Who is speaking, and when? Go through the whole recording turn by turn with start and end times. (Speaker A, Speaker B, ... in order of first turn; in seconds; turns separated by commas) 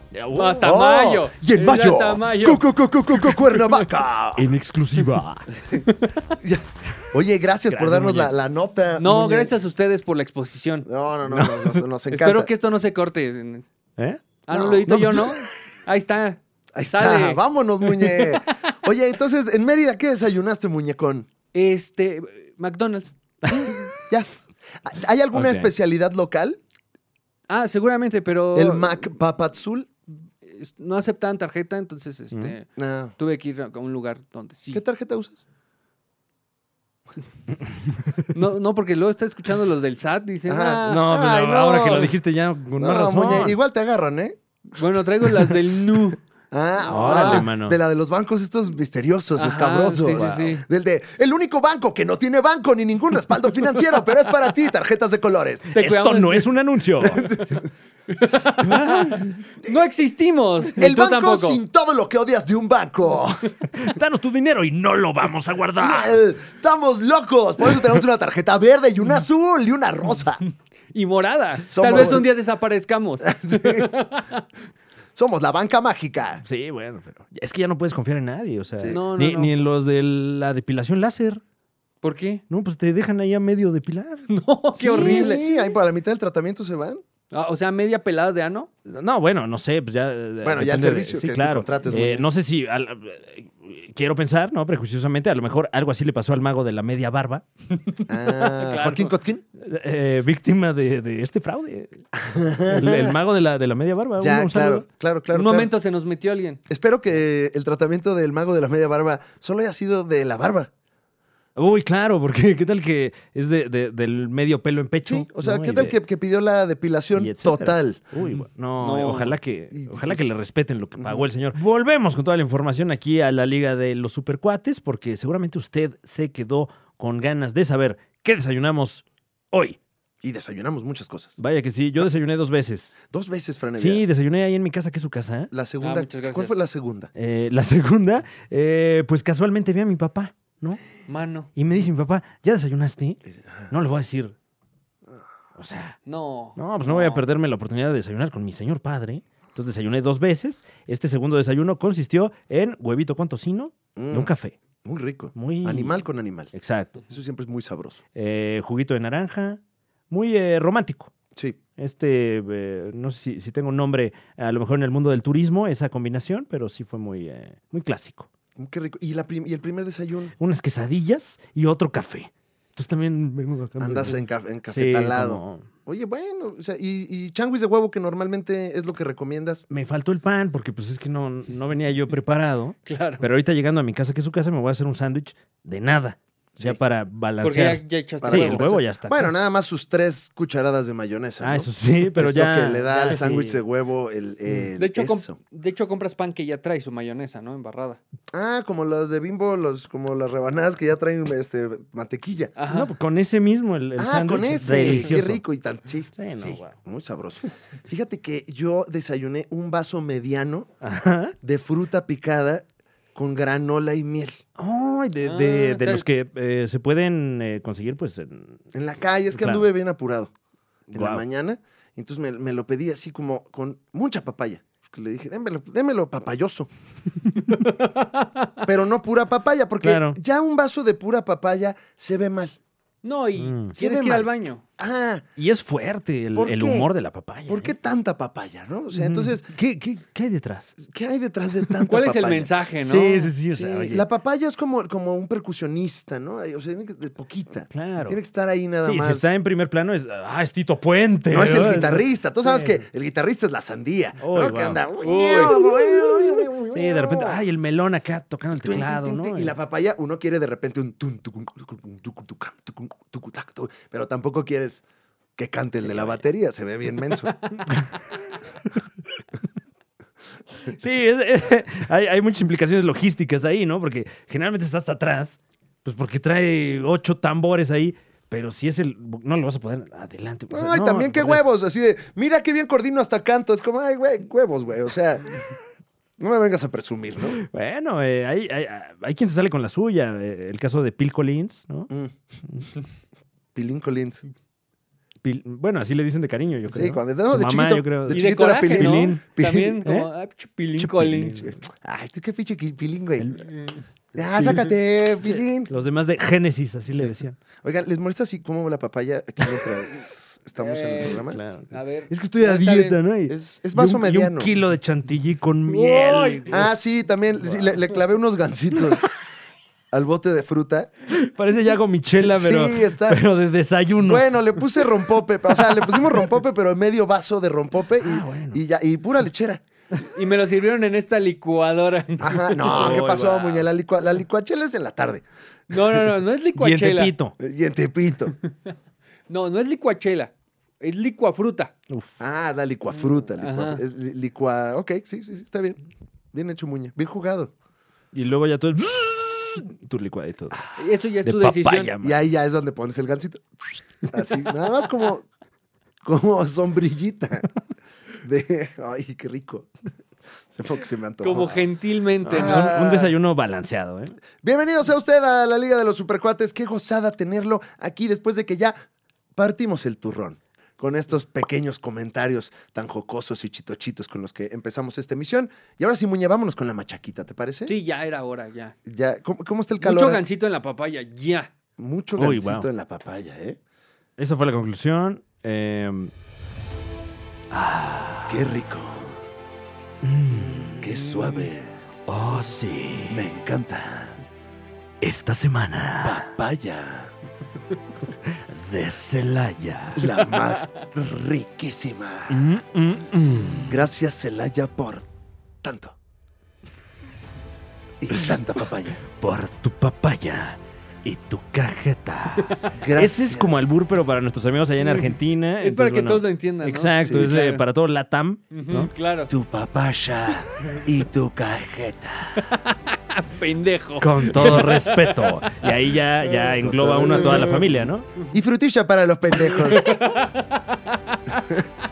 Speaker A: 0.1-0.7, Speaker B: 0.3-3.9, Speaker C: 0.6-4.5, Speaker A: 4.4-5.6, Speaker C: 5.6-5.8, Speaker B: 5.8-6.4, Speaker C: 6.4-9.5, Speaker A: 7.7-8.3, Speaker B: 9.0-10.9, Speaker C: 10.9-12.5, Speaker A: 11.3-11.8, Speaker B: 12.1-13.7, Speaker A: 14.0-14.2, Speaker B: 14.5-18.7, Speaker C: 14.5-14.9, Speaker A: 14.9-15.3, Speaker C: 16.8-21.3, Speaker B: 21.5-23.9, Speaker C: 24.8-26.6, Speaker A: 25.3-25.7, Speaker B: 27.5-29.0, Speaker C: 28.6-29.9, Speaker B: 30.4-34.8, Speaker C: 32.8-33.1, Speaker C: 34.7-35.4, Speaker B: 38.3-41.1, Speaker C: 40.5-42.2, Speaker A: 40.8-43.6, Speaker C: 42.8-44.4, Speaker B: 44.7-46.2, Speaker C: 46.5-55.7, Speaker A: 46.8-47.8, Speaker B: 49.4-50.6, Speaker A: 50.1-50.5, Speaker B: 55.7-56.5, Speaker A: 55.8-57.3, Speaker B: 57.0-57.5, Speaker C: 57.1-57.6, Speaker B: 58.1-61.6, Speaker A: 58.7-59.3, Speaker C: 60.7-63.6, Speaker A: 63.7-66.2, Speaker C: 65.8-70.4, Speaker B: 70.9-74.5, Speaker C: 71.7-72.3, Speaker A: 71.8-72.2, Speaker C: 73.2-73.9, Speaker C: 75.2-76.4, Speaker A: 76.5-81.4, Speaker B: 78.9-79.5, Speaker B: 82.0-82.4, Speaker A: 82.5-84.3, Speaker B: 84.3-85.6, Speaker C: 84.8-87.0, Speaker A: 84.8-85.4, Speaker B: 87.3-88.7, Speaker A: 88.9-97.4, Speaker C: 90.4-92.2, Speaker B: 97.7-99.1, Speaker C: 98.1-99.4, Speaker A: 99.6-102.0, Speaker C: 102.2-103.2, Speaker A: 102.7-104.8, Speaker C: 104.2-105.7, Speaker B: 105.3-106.6, Speaker C: 106.7-110.7, Speaker A: 111.6-116.0, Speaker C: 115.0-118.2, Speaker A: 117.2-129.8, Speaker B: 118.8-119.4, Speaker C: 119.7-120.3, Speaker C: 121.0-121.2, Speaker C: 130.2-131.3, Speaker A: 131.4-132.9, Speaker C: 133.1-134.1, Speaker A: 133.8-135.5, Speaker C: 135.5-137.1, Speaker B: 135.8-136.6, Speaker A: 137.2-140.8, Speaker B: 141.1-141.5, Speaker A: 141.6-144.3, Speaker C: 143.3-143.7, Speaker A: 145.6-146.0, Speaker B: 146.1-147.2, Speaker A: 146.6-154.6, Speaker C: 154.0-154.3, Speaker C: 154.8-156.5, Speaker A: 155.3-157.0, Speaker C: 157.1-158.0, Speaker A: 158.2-159.6, Speaker A: 160.1-161.1, Speaker C: 161.3-161.6, Speaker A: 161.8-168.3, Speaker C: 168.6-170.3, Speaker A: 170.4-175.7, Speaker C: 173.8-179.6, Speaker A: 179.7-189.3, Speaker B: 182.8-183.2, Speaker B: 187.4-188.7, Speaker C: 188.2-195.4, Speaker A: 191.4-193.6, Speaker B: 194.8-198.0, Speaker C: 198.3-202.5, Speaker B: 202.6-202.9, Speaker A: 202.7-205.4, Speaker C: 204.0-210.7, Speaker A: 206.2-206.8, Speaker A: 210.8-211.3, Speaker C: 211.4-214.4, Speaker A: 214.6-218.6, Speaker B: 215.2-216.1, Speaker C: 218.7-220.3, Speaker A: 219.3-219.7, Speaker C: 220.9-226.7, Speaker A: 220.9-221.2, Speaker B: 227.4-228.6, Speaker C: 228.6-232.6, Speaker A: 229.8-230.2, Speaker B: 233.0-234.6, Speaker A: 233.4-233.7, Speaker C: 233.8-235.2, Speaker A: 235.4-237.7, Speaker C: 236.4-236.9, Speaker C: 237.5-239.5, Speaker A: 238.9-240.8, Speaker C: 240.8-242.5, Speaker B: 241.9-243.3, Speaker A: 242.8-244.1, Speaker C: 243.5-249.3, Speaker A: 247.7-248.2, Speaker A: 248.8-252.8, Speaker C: 251.3-257.4, Speaker A: 254.2-259.5, Speaker B: 255.0-255.6, Speaker C: 258.6-264.8, Speaker C: 265.4-267.5, Speaker A: 265.8-266.2, Speaker B: 267.4-267.6, Speaker A: 270.7-281.4, Speaker C: 280.5-285.2, Speaker C: 286.2-287.4, Speaker A: 287.4-291.9, Speaker C: 291.9-292.1, Speaker C: 293.6-294.2, Speaker A: 295.2-299.3, Speaker C: 296.7-299.8, Speaker B: 298.1-301.5, Speaker A: 299.8-300.1, Speaker A: 300.8-301.6, Speaker C: 301.7-303.4, Speaker A: 303.2-303.4, Speaker B: 303.4-303.8, Speaker C: 304.1-305.7, Speaker A: 305.6-307.4, Speaker C: 307.6-311.4, Speaker B: 310.6-313.0, Speaker A: 311.1-316.7, Speaker C: 313.3-314.5, Speaker B: 315.7-316.7, Speaker C: 316.5-319.1, Speaker A: 317.4-317.8, Speaker C: 319.9-320.9, Speaker A: 321.1-324.9, Speaker C: 322.2-323.2, Speaker C: 324.0-329.6, Speaker A: 325.6-326.1, Speaker A: 328.0-328.6, Speaker B: 330.0-333.2, Speaker C: 332.2-335.2, Speaker A: 332.6-333.7, Speaker B: 335.7-337.1, Speaker A: 336.6-337.4, Speaker C: 337.4-338.4, Speaker B: 339.3-341.7, Speaker A: 341.9-342.2, Speaker C: 342.2-345.8, Speaker B: 343.3-343.8, Speaker C: 346.3-347.5, Speaker A: 348.1-350.7, Speaker B: 350.8-351.9, Speaker A: 351.2-352.2, Speaker C: 352.0-355.3, Speaker C: 356.0-357.5, Speaker C: 358.2-359.7, Speaker C: 360.5-361.7, Speaker B: 361.2-362.7, Speaker A: 362.2-364.2, Speaker C: 362.3-363.1, Speaker C: 364.4-368.8, Speaker C: 369.4-377.8, Speaker B: 377.7-378.8, Speaker C: 378.9-380.2, Speaker B: 379.8-381.5, Speaker C: 381.8-383.6, Speaker A: 382.2-382.7, Speaker A: 384.2-386.1, Speaker A: 387.5-388.4, Speaker C: 388.3-389.2, Speaker A: 390.0-391.2, Speaker C: 390.8-391.8, Speaker A: 392.1-393.3, Speaker C: 393.1-394.2, Speaker A: 395.0-396.3, Speaker C: 396.0-397.1, Speaker A: 398.3-400.2, Speaker C: 400.0-402.5, Speaker B: 400.4-400.9, Speaker A: 402.3-403.8, Speaker C: 403.7-405.1, Speaker C: 405.6-406.0, Speaker C: 408.0-409.0, Speaker A: 409.1-418.9, Speaker B: 412.4-412.7, Speaker C: 412.6-413.7, Speaker B: 415.6-417.6, Speaker C: 417.0-417.3, Speaker B: 418.5-419.3, Speaker C: 419.3-422.5, Speaker B: 422.4-425.7, Speaker A: 424.0-428.1, Speaker C: 426.3-430.0, Speaker B: 427.1-427.6, Speaker B: 429.4-431.6